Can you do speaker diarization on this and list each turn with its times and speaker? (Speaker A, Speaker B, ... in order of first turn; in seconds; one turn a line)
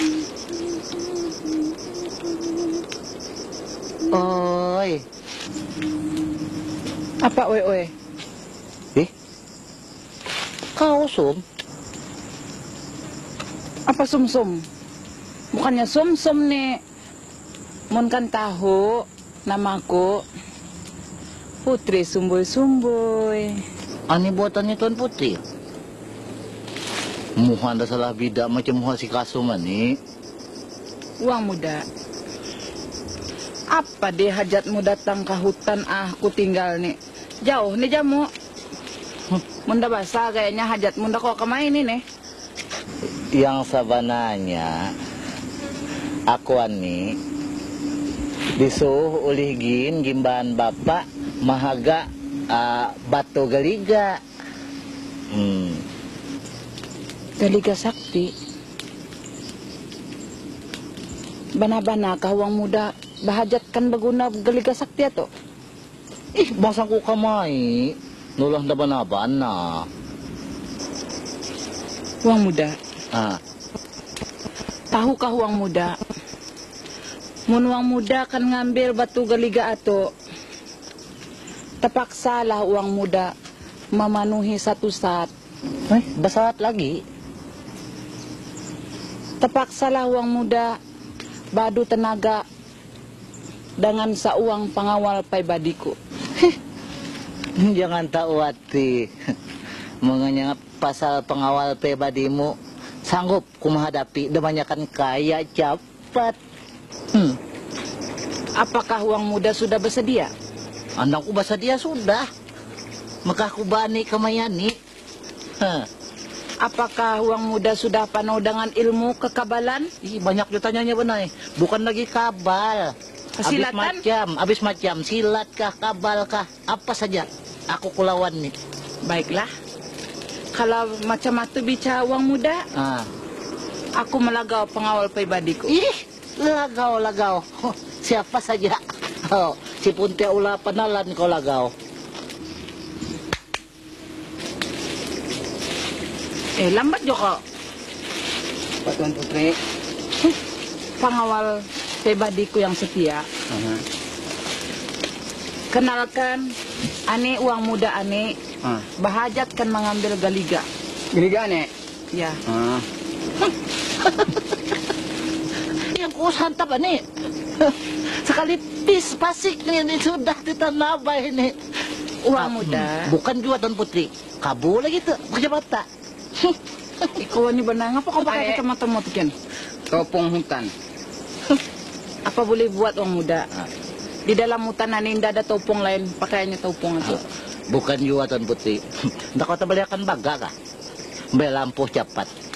Speaker A: 4.1-5.0
Speaker B: 7.2-7.9
Speaker A: 10.8-11.4
Speaker B: 13.9-14.6
Speaker B: 15.5-16.8
Speaker B: 17.9-20.2
Speaker B: 21.6-23.6
Speaker A: 24.1-25.4
Speaker A: 27.4-30.0
Speaker B: 31.2-31.9
Speaker B: 33.7-38.3
Speaker B: 39.7-42.0
Speaker A: 43.3-44.8
Speaker A: 46.3-47.1
Speaker A: 48.6-54.2
Speaker A: 55.3-55.9
Speaker B: 57.4-58.3
Speaker B: 61.6-65.3
Speaker A: 66.4-69.9
Speaker B: 72.2-72.8
Speaker A: 73.1-73.4
Speaker B: 74.9-76.0
Speaker B: 77.5-80.1
Speaker B: 81.8-83.3
Speaker B: 83.9-85.3
Speaker A: 85.9-87.0
Speaker B: 89.4-90.8
Speaker B: 91.5-92.4
Speaker B: 93.8-96.0
Speaker A: 97.6-99.1
Speaker A: 100.0-102.5
Speaker A: 103.1-106.4
Speaker A: 107.1-107.4
Speaker B: 108.6-110.3
Speaker A: 111.0-112.2
Speaker A: 113.3-114.7
Speaker A: 115.6-115.9
Speaker B: 116.6-119.9
Speaker A: 120.0-128.5
Speaker B: 123.4-124.0
Speaker B: 129.0-129.5
Speaker B: 130.5-132.6
Speaker A: 132.8-133.1
Speaker B: 134.0-135.7
Speaker A: 135.7-138.8
Speaker A: 139.3-141.7
Speaker B: 146.6-147.4
Speaker C: 148.8-149.6
Speaker B: 151.0-153.3
Speaker C: 153.5-153.8
Speaker B: 155.7-156.5
Speaker B: 157.1-158.4
Speaker B: 159.0-160.7
Speaker C: 161.1-161.7
Speaker B: 162.1-162.4
Speaker C: 162.5-162.9
Speaker A: 164.0-164.4
Speaker A: 165.8-167.0
Speaker A: 167.6-171.6
Speaker B: 172.2-173.1
Speaker A: 172.4-175.8
Speaker B: 177.1-179.3
Speaker C: 179.9-180.7
Speaker B: 182.3-183.5
Speaker B: 184.3-187.2
Speaker A: 187.0-188.8
Speaker A: 189.3-190.5
Speaker A: 191.3-192.3